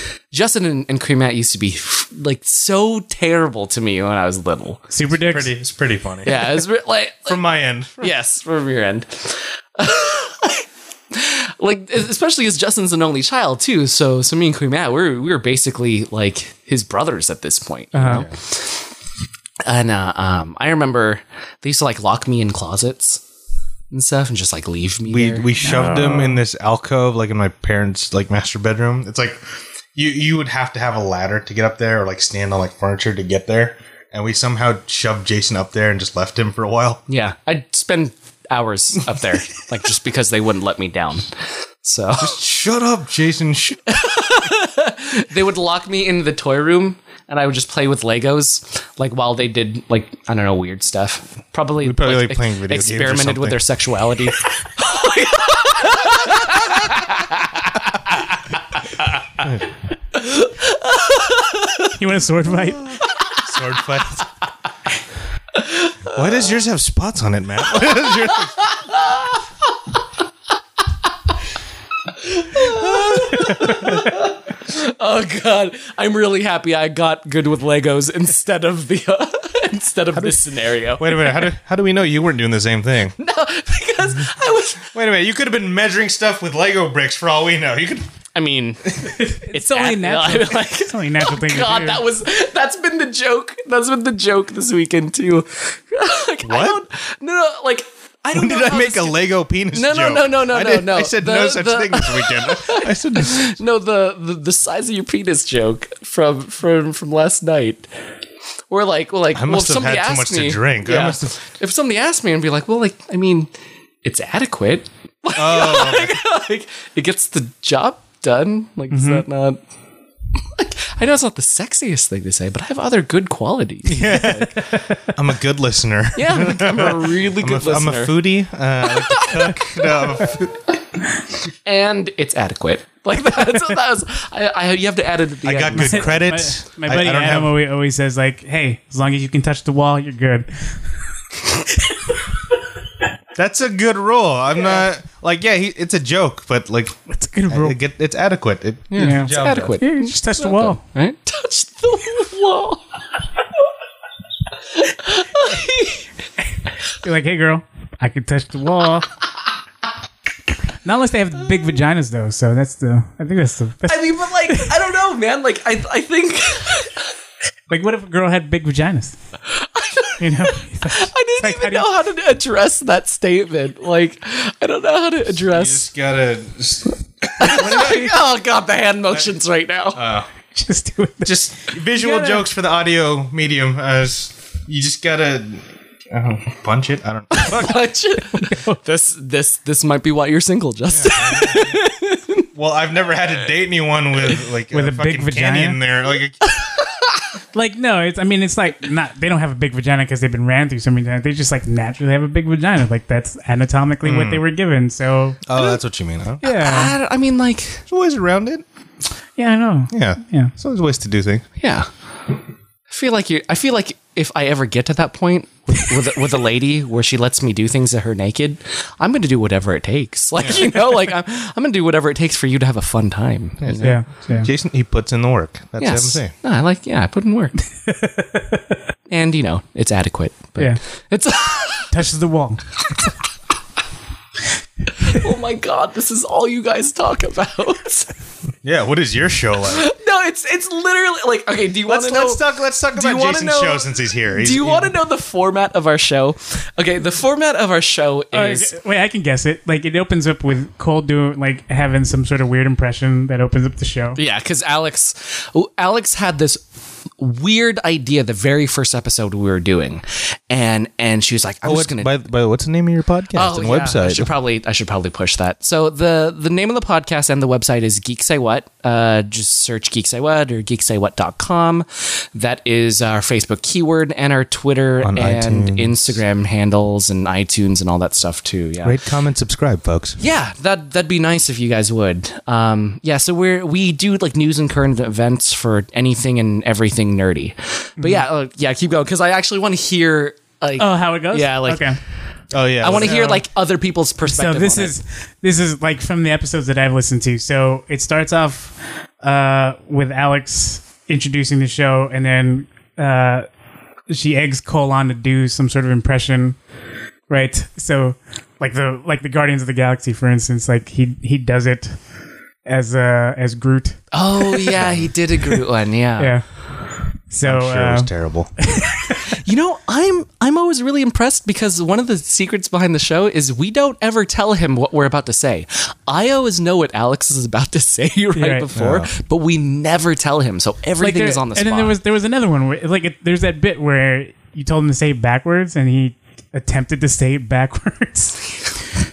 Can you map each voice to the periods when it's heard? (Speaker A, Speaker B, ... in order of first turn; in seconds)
Speaker A: 0.3-4.8, 6.2-7.4, 8.0-18.7, 19.6-23.2, 23.9-26.2, 37.1-41.3, 41.8-42.4, 43.9-59.1, 60.1-62.0, 63.0-63.4, 65.5-65.9, 68.3-69.4, 72.2-81.5, 83.2-84.9, 88.3-107.9, 108.7-113.5, 114.0-119.6, 120.5-124.7, 126.2-129.7, 131.6-136.2, 148.9-152.8, 154.7-156.0, 163.9-166.9, 169.5-175.8, 177.4-180.0, 187.3-192.4, 196.4-197.2, 206.4-207.8, 211.6-211.9, 212.9-224.0, 225.8-227.6, 229.1-231.9, 235.0-238.1, 239.7-248.7, 254.2-256.6, 257.2-262.1, 263.3-279.0, 280.2-291.9, 292.8-294.9, 314.1-316.4, 319.3-331.9
Speaker B: 4.9-5.5, 17.9-18.2, 25.6-26.4, 62.0-63.0, 89.1-92.0, 118.9-119.2, 135.7-140.7, 147.1-147.8, 148.9-150.8, 157.0-159.1, 160.8-164.7, 167.7-169.2, 170.2-171.9, 177.4-178.1, 180.5-182.4, 188.4-188.8, 194.7-195.8, 197.5-205.6, 206.4-206.9, 209.4-210.5, 223.8-224.5, 227.9-228.7, 231.9-232.6, 248.3-254.2, 288.0-288.2, 290.8-292.0, 292.9-293.4, 294.2-303.5, 304.1-306.6, 307.3-311.9, 312.6-314.9, 316.2-316.4, 317.3-319.2, 328.3-328.7, 331.0-338.6
Speaker C: 5.1-6.5, 7.2-8.1, 18.1-18.3, 25.1-29.4, 29.9-37.0, 42.2-43.8, 51.8-53.6, 62.8-64.3, 66.1-68.5, 72.8-74.1, 81.0-83.2, 84.9-88.1, 96.4-96.8, 98.3-103.5, 109.3-111.3, 115.3-116.2, 123.9-130.6, 135.4-137.6, 143.4-146.9, 147.5-149.8, 175.5-178.1, 179.9-180.3, 181.2-187.8, 190.9-191.8, 192.5-196.4, 204.0-204.4, 205.5-206.4, 207.9-208.6, 209.9-211.4, 223.6-226.3, 238.6-239.9, 241.9-244.9, 261.6-264.3, 275.0-276.2, 278.8-280.2, 292.5-293.3, 314.8-315.1, 317.4-318.5, 328.8-329.1